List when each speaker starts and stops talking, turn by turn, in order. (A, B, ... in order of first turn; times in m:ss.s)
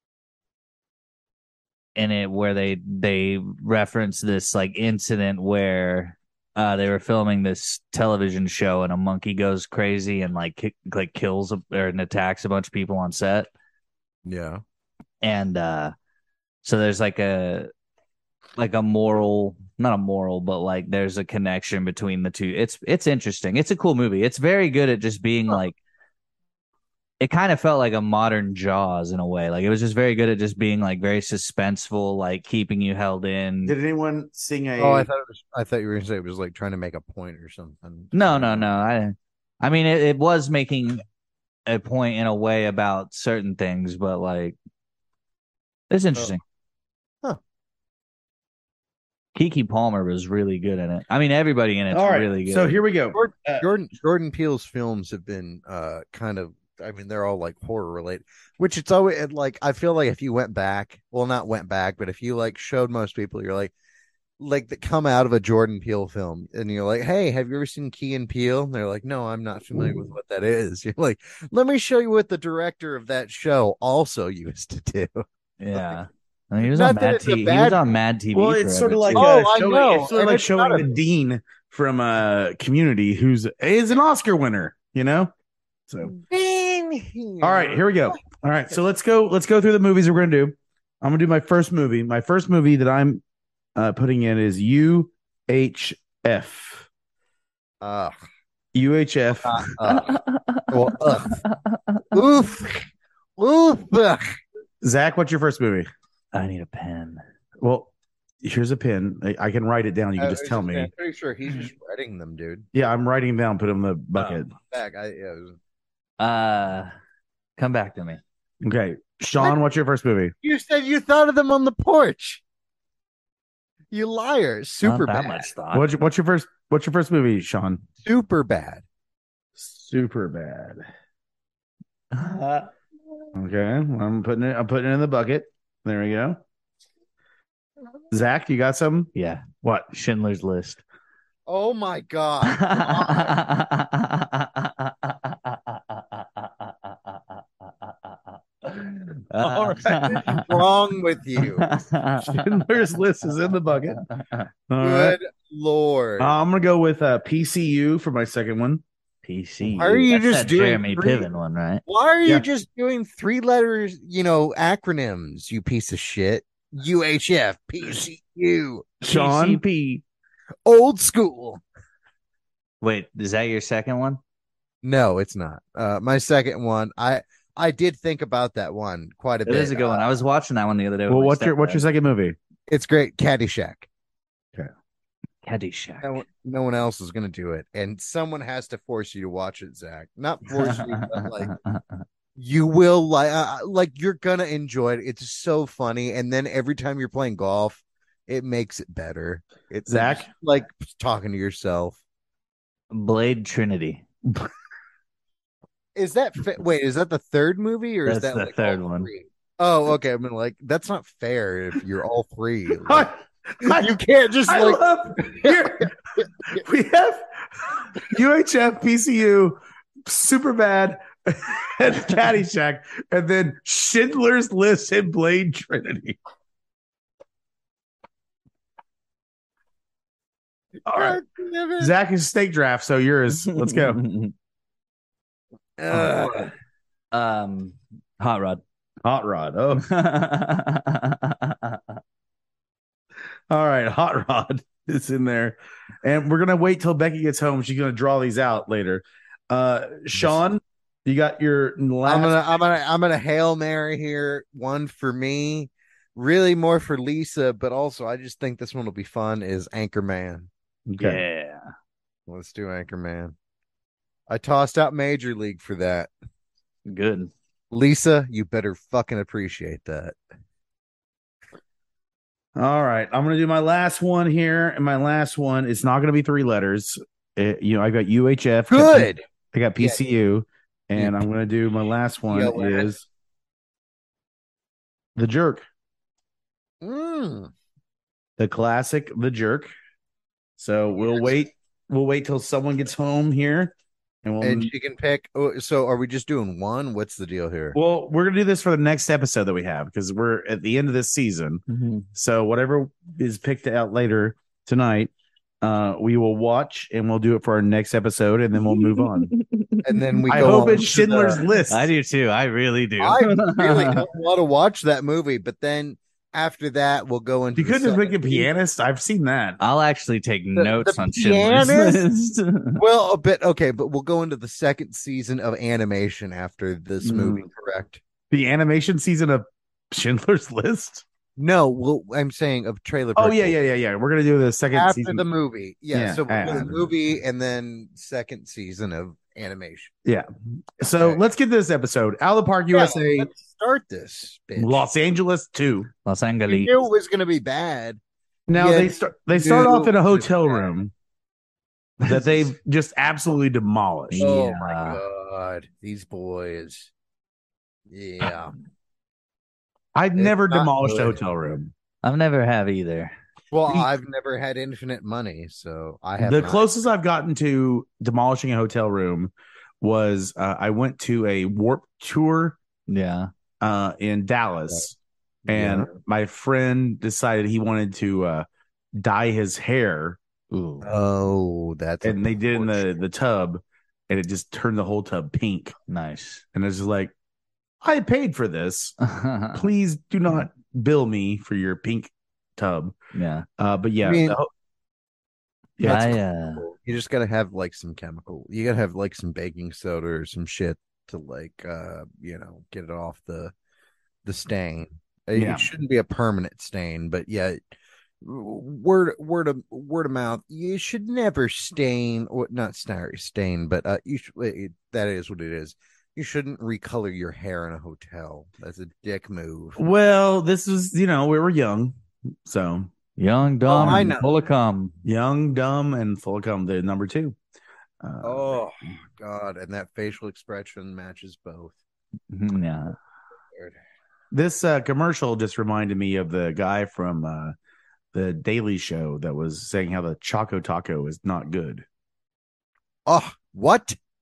0:02.0-0:13.5 A
0:14.3-0:14.6 B
0:15.2-0:15.9 A
0:16.6-0:17.7 A
0:18.6-0:25.8 A
0:27.2-0:33.8 A
0:33.7-0:35.1 C
0:34.8-0:38.7 B
0:38.1-0:41.0 A
0:41.7-0:44.6 A
0:45.9-0:46.4 A
0:49.4-0:52.8 A
0:51.9-0:53.6 C
0:53.1-1:03.7 B
1:04.4-1:15.2 B
1:15.6-1:19.3 A
1:16.6-1:17.9 B
1:18.3-1:25.3 C
1:19.2-1:20.9 B
1:25.9-1:26.2 C
1:26.2-1:28.0 B
1:27.4-1:33.2 C
1:33.8-1:36.9 C
1:37.8-1:38.1 B
1:38.7-1:39.6 C
1:39.4-1:41.4 B
1:40.1-1:40.7 A
1:41.2-1:42.0 A
1:42.1-1:42.9 B
1:43.4-1:44.4 B
1:44.8-1:45.9 C
1:46.3-1:47.2 A
1:47.6-1:47.9 C
1:48.4-1:50.9 C
1:50.2-1:52.6 B
1:52.7-1:54.5 C
1:54.2-1:55.6 B
1:56.2-1:56.9 A
1:57.6-1:58.2 A
1:58.6-2:00.3 C
2:00.4-2:02.4 B
2:03.9-2:05.5 B
2:04.8-2:05.9 A
2:05.7-2:07.8 C
2:08.0-2:08.8 B
2:09.6-2:10.8 C
2:12.1-2:12.7 A
2:13.4-2:16.4 C
2:18.1-2:19.1 C
2:19.2-2:20.8 A
2:19.6-2:19.9 C
2:21.5-2:23.4 B
2:22.5-2:27.2 A
2:28.6-2:30.5 A
2:29.4-2:30.2 C
2:30.1-2:31.7 B
2:31.4-2:32.6 A
2:32.2-2:34.0 C
2:34.2-2:34.5 A
2:34.7-2:35.2 C
2:34.8-2:36.4 B
2:36.2-2:38.8 C
2:39.2-2:41.8 A
2:39.6-2:41.3 B
2:41.9-2:49.0 B
2:49.0-2:50.0 C
2:49.1-2:49.6 A
2:50.7-2:51.6 B
2:52.8-2:54.2 A
2:54.8-3:00.1 B
2:59.5-3:01.8 A
3:01.1-3:02.4 C
3:02.7-3:03.9 B
3:05.4-3:06.2 A
3:06.0-3:11.6 B
3:10.6-3:11.8 A
3:12.4-3:22.0 B
3:19.9-3:20.3 C
3:22.9-3:24.0 A
3:26.0-3:33.1 B
3:28.1-3:29.1 A
3:32.8-3:33.9 C
3:33.6-3:36.6 B
3:34.5-3:35.9 C
3:36.5-3:46.2 C
3:50.8-3:51.2 C
3:50.9-3:52.0 B
3:51.8-3:54.0 C
3:53.5-3:54.3 A
3:55.8-3:56.5 B
3:55.9-3:56.4 A
3:57.1-3:58.6 A
3:59.0-3:59.9 C
3:59.7-4:01.9 A
4:03.5-4:12.4 C
4:12.1-4:20.5 B
4:20.9-4:21.2 C
4:21.0-4:21.7 A
4:22.3-4:23.3 B
4:24.3-4:26.1 B
4:26.9-4:27.3 A
4:27.7-4:30.2 B
4:32.6-4:43.0 C
4:38.7-4:39.2 B
4:42.3-4:42.9 B
4:45.2-4:45.6 C
4:46.8-4:47.5 B
4:48.4-4:49.7 C
4:50.6-4:53.7 C
4:54.2-4:54.7 C
4:54.4-4:57.8 B
4:57.7-5:01.6 C
5:01.7-5:02.1 A
5:02.2-5:09.3 C
5:08.6-5:10.7 A
5:09.8-5:11.4 B
5:10.3-5:11.9 C
5:11.7-5:14.1 A
5:13.0-5:18.5 B
5:17.6-5:19.6 C
5:19.6-5:22.8 A
5:20.6-5:22.0 B
5:22.8-5:28.0 B
5:27.0-5:27.4 C
5:28.3-5:31.0 C
5:31.4-5:33.6 B
5:33.2-5:35.2 C
5:34.7-5:39.9 B
5:35.9-5:36.8 C
5:40.8-5:43.3 C
5:40.8-5:41.2 B
5:42.7-5:44.9 B
5:44.6-5:45.9 C
5:46.1-5:46.7 A
5:46.5-5:48.0 B
5:48.5-5:50.9 C
5:48.5-5:50.7 B
5:52.0-5:54.3 C
5:52.0-5:52.5 B
5:54.1-5:55.0 A
5:54.2-5:56.9 B
5:57.9-5:58.5 B
6:00.0-6:01.7 C
6:00.2-6:01.2 B
6:02.0-6:03.1 A
6:03.5-6:06.7 B
6:06.2-6:12.6 C
6:12.9-6:13.3 A
6:13.6-6:15.0 C
6:15.5-6:20.2 C
6:15.5-6:15.9 B
6:20.5-6:20.9 A
6:20.8-6:22.9 B
6:22.0-6:25.7 C
6:25.9-6:26.4 A
6:26.5-6:27.1 C
6:27.8-6:29.0 C
6:29.0-6:29.6 A
6:29.6-6:33.0 C
6:33.1-6:33.5 A
6:33.6-6:34.5 C
6:34.0-6:34.4 B
6:35.8-6:36.2 C
6:35.8-6:43.5 B
6:35.8-6:36.6 A
6:44.2-6:47.6 B
6:45.4-6:45.7 C
6:48.2-6:59.8 B
6:59.8-7:02.9 C
7:03.2-7:05.0 A
7:03.7-7:04.3 B
7:03.8-7:04.1 C
7:05.0-7:07.4 C
7:08.0-7:08.6 C
7:08.2-7:11.8 B
7:12.3-7:13.0 A
7:14.3-7:17.5 C
7:18.1-7:21.8 C
7:23.1-7:24.0 B